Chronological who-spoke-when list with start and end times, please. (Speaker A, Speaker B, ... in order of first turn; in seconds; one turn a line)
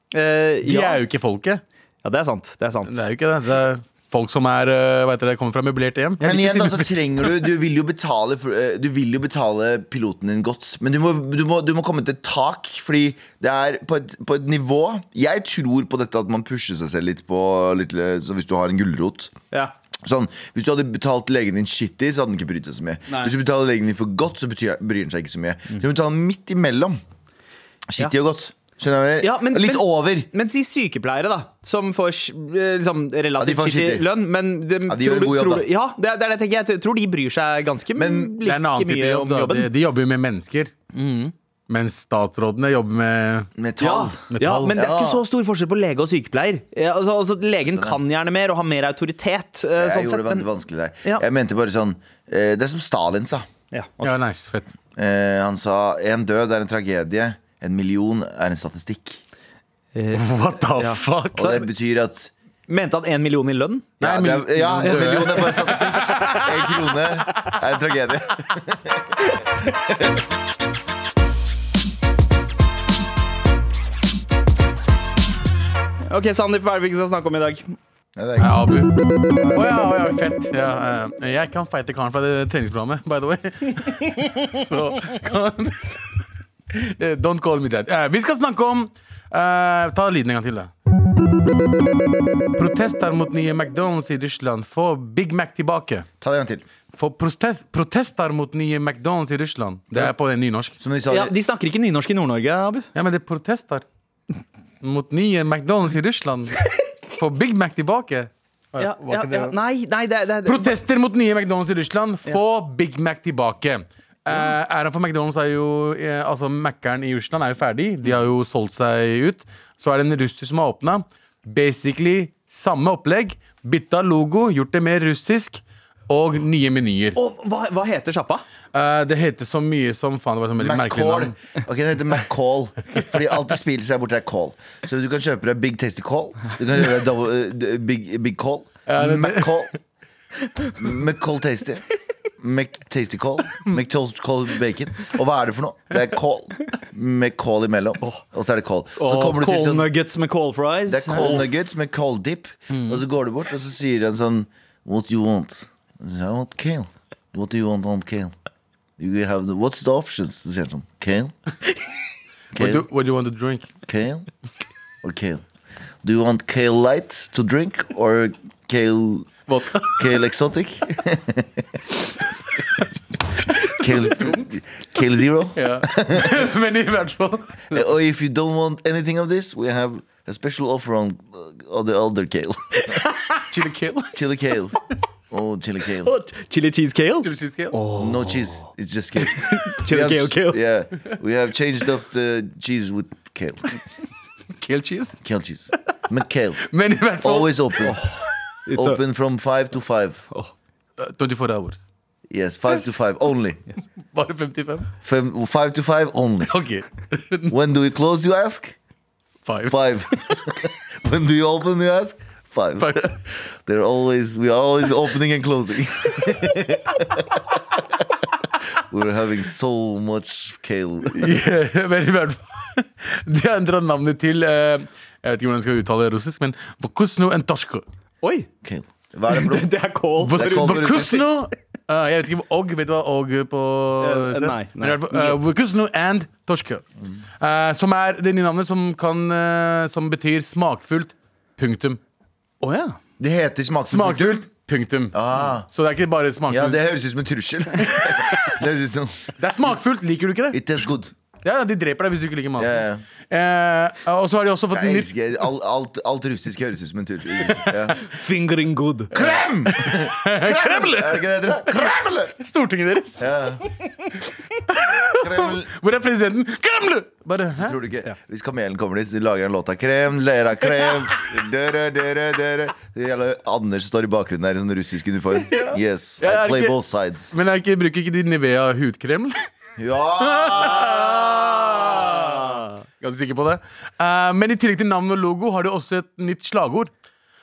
Speaker A: 0.1-1.0
Speaker B: 0.6-1.6
Speaker A: 2.0-3.0
Speaker B: 2.9-7.4
Speaker C: 6.2-19.3
Speaker C: 20.0-27.0
Speaker C: 27.9-30.3
Speaker A: 29.2-39.7
Speaker C: 33.4-34.1
Speaker C: 34.9-35.6
Speaker C: 38.0-38.3
Speaker B: 38.4-40.7
Speaker A: 40.9-41.3
Speaker B: 41.7-43.5
Speaker C: 43.6-45.2
Speaker A: 43.8-50.5
Speaker B: 44.3-44.7
Speaker C: 47.6-48.0
Speaker C: 49.8-53.5
Speaker A: 53.7-54.1
Speaker B: 54.0-54.7
Speaker C: 55.0-59.2
Speaker A: 59.9-60.2
Speaker B: 60.1-61.6
Speaker A: 60.8-61.0
Speaker C: 61.3-62.3
Speaker A: 62.7-63.9
Speaker C: 64.0-69.1
Speaker B: 64.0-66.5
Speaker A: 76.1-77.8
Speaker C: 78.2-79.6
Speaker B: 78.4-78.9
Speaker B: 79.5-86.0
Speaker B: 86.7-90.7
Speaker B: 92.5-96.0
Speaker C: 96.2-96.6
Speaker B: 97.0-100.7
Speaker C: 100.8-101.3
Speaker A: 101.1-102.9
Speaker B: 102.9-103.8
Speaker B: 104.8-106.6
Speaker B: 107.2-109.5
Speaker A: 108.8-110.7
Speaker B: 110.4-127.2
Speaker A: 127.1-128.4
Speaker B: 128.7-131.3
Speaker C: 130.6-139.7
Speaker B: 138.9-139.6
Speaker C: 140.8-141.8
Speaker C: 142.4-149.9
Speaker A: 149.0-151.4
Speaker C: 150.9-158.3
Speaker C: 159.0-161.3
Speaker C: 162.5-162.8
Speaker B: 162.5-163.7
Speaker C: 163.8-164.3
Speaker C: 165.0-165.4
Speaker C: 166.0-169.4
Speaker B: 169.5-170.1
Speaker C: 169.9-171.6
Speaker B: 173.5-174.5
Speaker C: 173.7-176.4
Speaker B: 175.6-177.8
Speaker C: 177.7-182.9
Speaker B: 183.5-184.2
Speaker C: 184.1-184.8
Speaker C: 185.3-186.1
Speaker A: 186.0-188.6
Speaker B: 187.2-187.8
Speaker C: 188.0-193.8
Speaker A: 189.3-190.6
Speaker B: 194.6-195.2
Speaker C: 195.2-196.7
Speaker B: 196.7-197.8
Speaker C: 197.2-198.0
Speaker A: 197.8-199.0
Speaker C: 198.7-200.2
Speaker B: 201.0-201.8
Speaker C: 202.3-203.6
Speaker B: 204.1-204.9
Speaker C: 205.0-206.5
Speaker B: 206.5-207.5
Speaker C: 207.5-208.7
Speaker B: 209.4-210.4
Speaker C: 209.7-217.4
Speaker B: 212.8-213.1
Speaker C: 218.9-221.3
Speaker B: 221.1-227.8
Speaker A: 228.2-228.5
Speaker C: 228.6-229.7
Speaker A: 229.3-231.2
Speaker B: 230.2-236.8
Speaker C: 230.3-231.2
Speaker A: 234.0-235.4
Speaker B: 237.4-242.0
Speaker A: 242.6-242.9
Speaker C: 243.2-244.4
Speaker B: 243.9-245.2
Speaker C: 245.1-245.7
Speaker B: 245.7-246.8
Speaker C: 246.5-249.2
Speaker B: 247.9-248.6
Speaker B: 249.4-250.6
Speaker C: 250.5-251.1
Speaker B: 251.4-252.8
Speaker C: 252.6-253.0
Speaker B: 253.3-255.1
Speaker C: 254.7-258.0
Speaker A: 258.0-259.1
Speaker C: 259.1-262.3
Speaker B: 259.1-263.2
Speaker C: 263.2-263.6
Speaker B: 264.7-267.8
Speaker C: 265.1-265.7
Speaker C: 267.5-277.3
Speaker B: 276.2-276.7
Speaker B: 277.3-279.4
Speaker C: 279.8-282.6
Speaker B: 280.2-286.9